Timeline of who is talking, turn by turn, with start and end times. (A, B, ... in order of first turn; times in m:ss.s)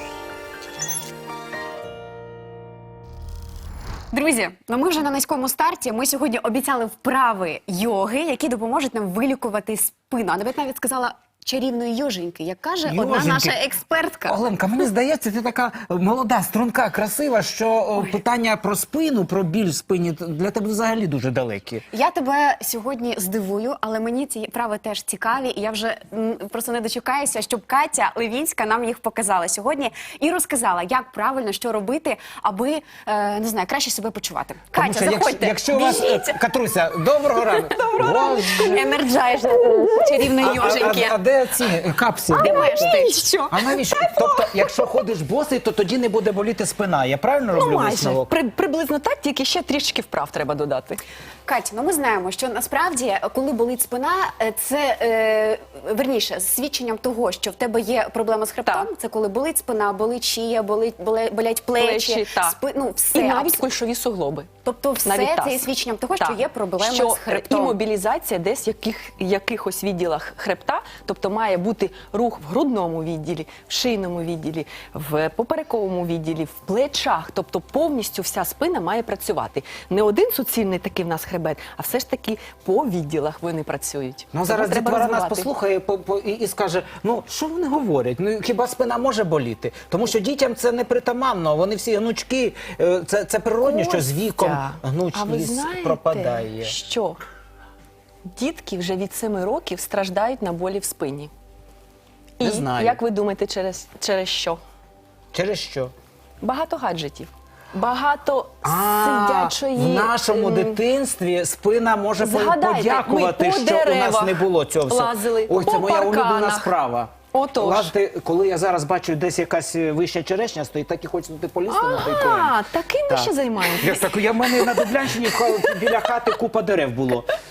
0:04.1-0:14.4 A
0:12.8-0:13.6 B
0:14.3-0:21.8 B
0:21.9-0:36.4 A
0:34.7-0:38.9 B
0:37.5-0:39.0 C
0:38.2-0:41.2 A
0:39.6-0:40.5 C
0:40.4-0:48.3 B
0:42.4-0:43.5 A
0:42.4-0:44.5 C
0:47.5-0:51.0 C
0:51.5-1:03.7 A
1:01.8-1:02.6 C
1:03.1-1:04.5 C
1:04.6-1:07.8 A
1:05.0-1:25.5 C
1:24.3-1:36.8 B
1:33.6-1:37.2 C
1:38.3-1:41.3 C
1:42.4-1:44.6 C
1:42.4-1:43.0 B
1:45.3-1:45.9 B
1:46.4-1:50.8 C
1:48.6-2:02.6 B
1:52.2-1:56.7 C
1:57.3-1:57.9 C
2:01.7-2:04.9 C
2:03.1-2:07.3 B